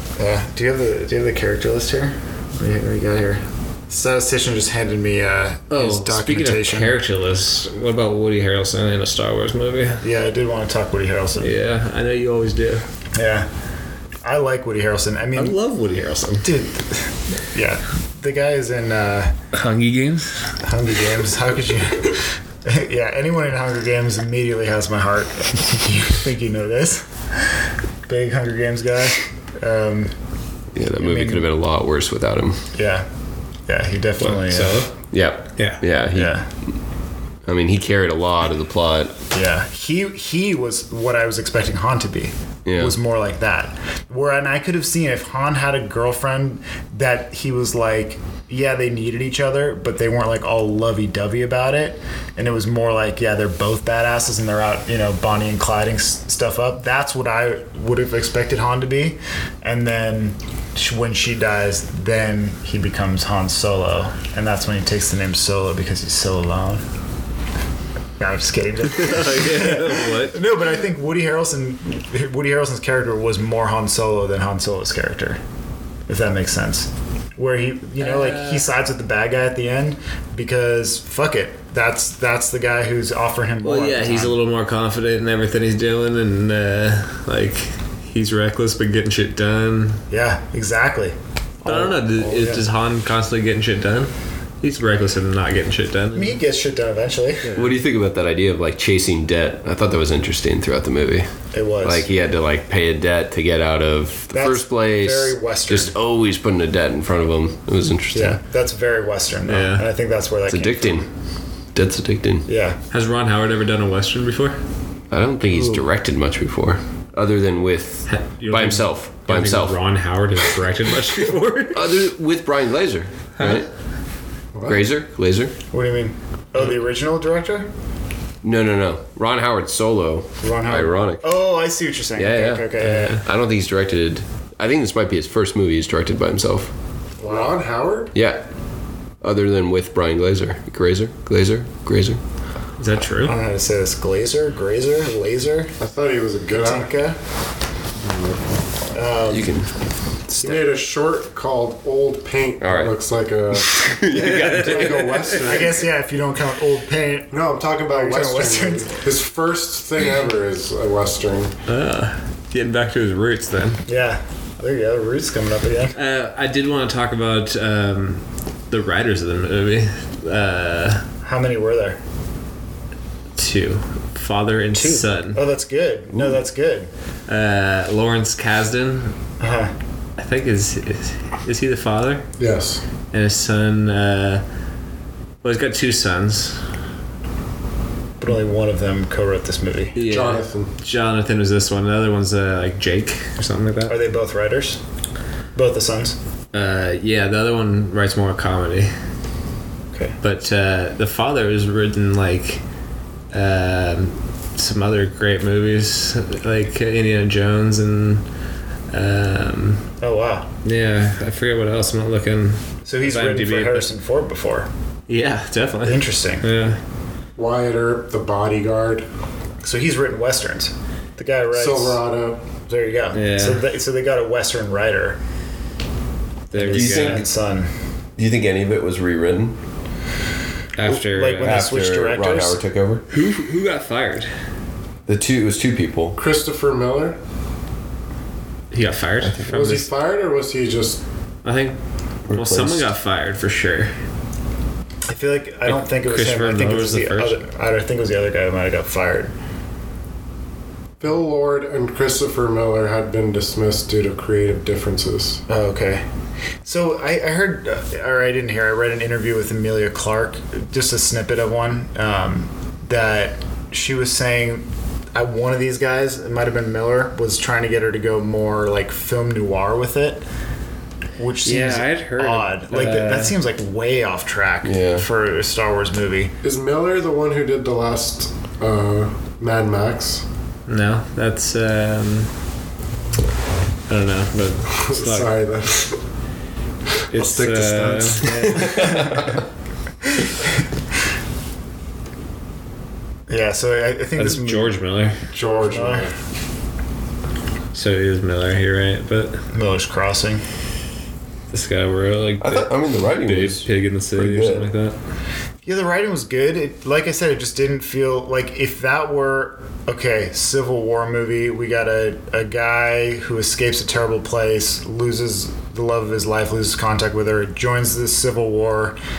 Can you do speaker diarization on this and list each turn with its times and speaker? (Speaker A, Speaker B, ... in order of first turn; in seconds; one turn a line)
Speaker A: 0.2-6.9
Speaker B: 5.7-10.0
Speaker A: 10.0-11.5
Speaker B: 11.4-12.8
Speaker A: 13.1-13.5
Speaker A: 14.2-15.6
Speaker B: 15.3-16.5
Speaker A: 16.4-19.4
Speaker B: 19.5-20.6
Speaker A: 20.6-30.1
Speaker C: 30.7-32.6
Speaker A: 30.9-31.5
Speaker A: 32.7-33.1
Speaker A: 33.7-34.9
Speaker B: 34.2-34.9
Speaker C: 35.1-36.3
Speaker B: 35.6-35.8
Speaker A: 36.1-36.5
Speaker C: 37.5-39.1
Speaker A: 39.3-66.8
Speaker C: 42.6-42.9
Speaker A: 68.2-75.4
Speaker B: 68.9-70.4
Speaker A: 76.1-84.3
Speaker B: 78.0-78.7
Speaker B: 83.6-90.0
Speaker A: 90.1-92.6
Speaker B: 91.6-96.4
Speaker A: 96.1-97.5
Speaker B: 97.5-97.7
Speaker C: 97.5-101.3
Speaker A: 101.5-102.1
Speaker C: 101.8-108.4
Speaker A: 104.3-105.9
Speaker A: 108.1-111.0
Speaker B: 109.5-109.9
Speaker C: 110.5-111.1
Speaker C: 111.7-112.5
Speaker A: 112.5-112.8
Speaker B: 112.9-114.6
Speaker C: 115.1-119.8
Speaker B: 118.1-121.9
Speaker C: 121.7-123.7
Speaker B: 123.4-123.7
Speaker D: 124.5-124.8
Speaker C: 124.7-125.5
Speaker A: 125.7-127.7
Speaker C: 128.4-131.2
Speaker A: 130.4-133.2
Speaker C: 132.2-136.7
Speaker B: 132.8-133.2
Speaker A: 137.2-137.5
Speaker D: 137.2-138.1
Speaker C: 138.1-138.4
Speaker C: 139.2-142.2
Speaker B: 142.8-143.3
Speaker A: 143.2-145.7
Speaker D: 145.8-146.9
Speaker A: 146.6-147.2
Speaker D: 148.1-148.3
Speaker A: 148.9-149.6
Speaker C: 149.3-149.7
Speaker C: 150.3-150.6
Speaker D: 150.4-155.9
Speaker C: 152.6-152.9
Speaker C: 153.5-155.3
Speaker B: 154.1-155.2
Speaker A: 154.7-157.3
Speaker D: 157.3-161.5
Speaker A: 157.9-158.9
Speaker B: 161.7-163.8
Speaker A: 163.8-165.9
Speaker B: 165.9-171.1
Speaker A: 171.2-172.0
Speaker B: 173.3-175.4
Speaker A: 174.7-176.9
Speaker B: 177.3-179.2
Speaker A: 179.4-179.7
Speaker B: 180.2-182.3
Speaker D: 182.4-182.8
Speaker B: 183.1-184.4
Speaker B: 185.4-186.6
Speaker A: 188.2-190.0
Speaker B: 189.9-193.9
Speaker D: 190.0-190.7
Speaker A: 193.9-194.8
Speaker A: 195.5-196.2
Speaker B: 196.5-198.9
Speaker B: 200.2-202.6
Speaker B: 203.3-208.2
Speaker B: 208.9-209.9
Speaker A: 210.0-210.5
Speaker B: 210.6-213.9
Speaker A: 212.8-214.7
Speaker B: 215.1-216.8
Speaker A: 215.8-216.5
Speaker D: 217.3-219.1
Speaker A: 219.6-222.0
Speaker D: 221.5-222.4
Speaker A: 222.7-225.2
Speaker B: 223.1-223.6
Speaker B: 226.5-227.2
Speaker A: 226.5-227.7
Speaker C: 226.7-227.2
Speaker C: 228.2-229.6
Speaker B: 230.8-231.7
Speaker A: 230.8-232.6
Speaker C: 231.4-233.1
Speaker B: 233.1-234.3
Speaker C: 235.1-236.2
Speaker D: 236.2-237.2
Speaker B: 238.7-239.9
Speaker C: 239.2-239.5
Speaker D: 239.4-241.0
Speaker B: 241.4-241.8
Speaker C: 242.3-242.9
Speaker B: 242.3-243.9
Speaker A: 245.1-249.3
Speaker B: 245.7-247.4
Speaker D: 251.0-255.4
Speaker A: 255.5-256.0
Speaker A: 256.6-270.2
Speaker A: 271.2-276.3
Speaker B: 271.4-273.3
Speaker C: 274.6-275.0
Speaker D: 276.4-280.2
Speaker B: 280.7-282.3
Speaker B: 283.9-285.3
Speaker D: 284.7-286.0
Speaker B: 287.1-289.2
Speaker D: 287.1-289.1
Speaker C: 288.6-289.3
Speaker A: 293.3-294.7
Speaker B: 294.2-295.2
Speaker D: 295.3-296.1
Speaker A: 295.4-296.1
Speaker B: 297.7-299.4
Speaker A: 299.5-300.4
Speaker B: 301.5-304.9
Speaker C: 302.4-304.7
Speaker A: 305.6-319.0